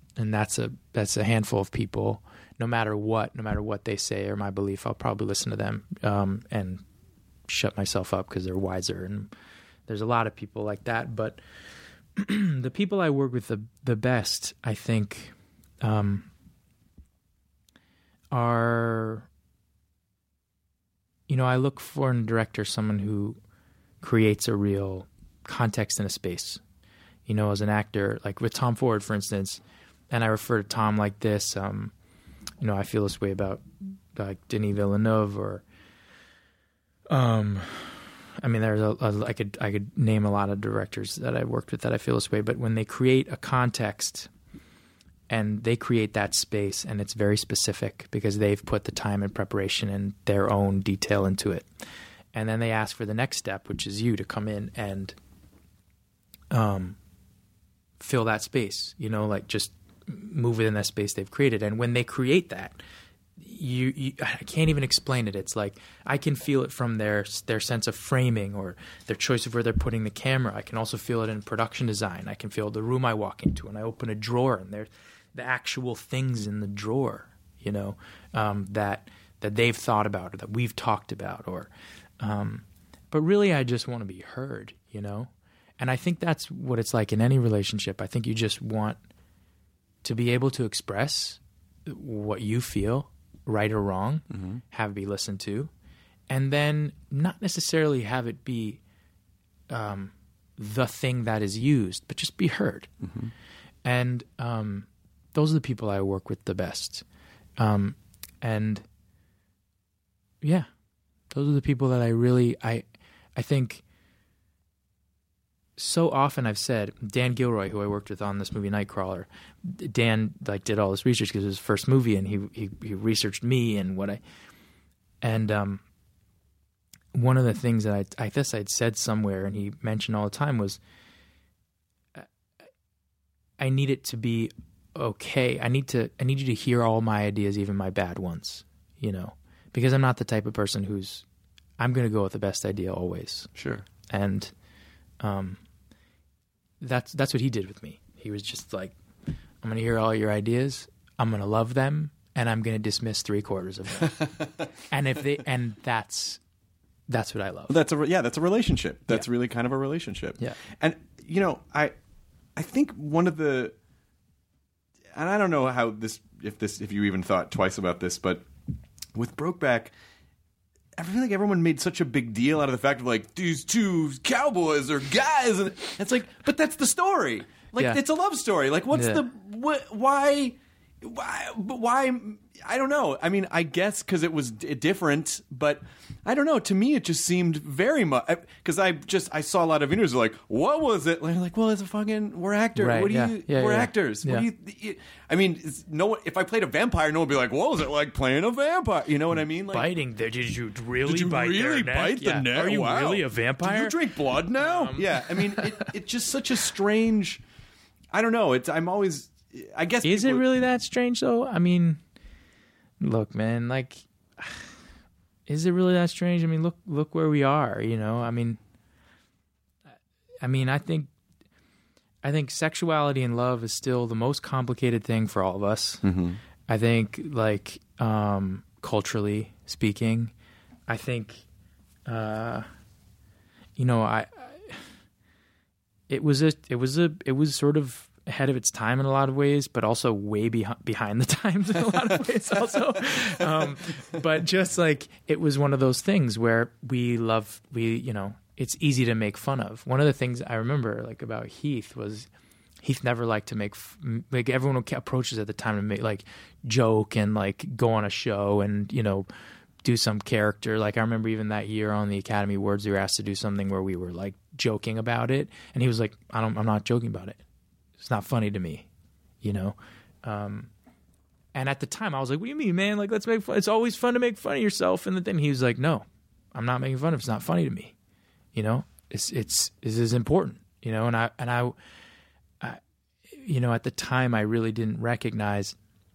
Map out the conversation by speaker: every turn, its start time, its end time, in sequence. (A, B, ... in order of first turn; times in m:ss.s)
0:00.2-0:06.8 A
0:07.5-0:09.3 A
0:09.9-0:11.4 A
0:12.2-0:16.3 A
0:18.3-0:19.3 A
0:21.3-0:23.4 A
0:24.0-0:26.6 A
0:27.3-0:31.9 A
0:32.6-0:33.6 A
0:34.1-0:35.6 A
0:37.1-0:44.3 A
0:45.3-0:51.7 A
0:52.3-0:55.2 A
0:56.5-0:57.0 A
0:58.0-1:02.8 A
1:03.4-1:29.0 A
1:30.0-1:35.7 A
1:34.3-1:34.6 B
1:36.3-1:38.8 A
1:39.7-1:42.9 A
1:43.0-1:43.3 B
1:43.8-1:47.0 A
1:47.6-1:48.8 A
1:50.4-1:50.7 A
1:51.3-1:52.8 A
1:53.4-1:53.8 A
1:55.8-2:04.2 A
2:05.2-2:05.8 A
2:07.1-2:10.8 A
2:13.6-2:21.2 A
2:21.8-2:23.5 A
2:23.6-2:23.8 B
2:24.1-2:24.5 A
2:25.2-2:25.6 A
2:26.8-2:29.0 A
2:29.6-2:36.4 A
2:37.1-2:37.8 A
2:37.7-2:41.9 B
2:42.5-2:43.7 B
2:45.1-2:48.4 B
2:49.1-2:49.9 B
2:51.0-3:19.9 B
2:57.8-2:58.0 A
2:58.9-2:59.2 A
3:12.8-3:14.5 A
3:19.7-3:24.0 A
3:21.0-3:27.4 B
3:24.5-3:25.8 A
3:28.1-3:30.4 B
3:30.0-3:32.0 A
3:33.0-3:34.7 A
3:35.5-3:38.6 A
3:40.4-3:41.1 A
3:42.2-3:46.0 A
3:46.0-3:46.4 B
3:46.7-3:50.3 A
3:50.9-3:51.4 A
3:52.0-3:52.6 A
3:53.8-3:54.8 A
3:56.1-4:12.3 A
4:12.8-4:19.3 A
4:19.8-4:27.4 A
4:28.0-4:28.8 A
4:29.4-4:30.7 A
4:31.5-4:37.9 A
4:38.5-4:41.8 A
4:43.3-4:45.7 A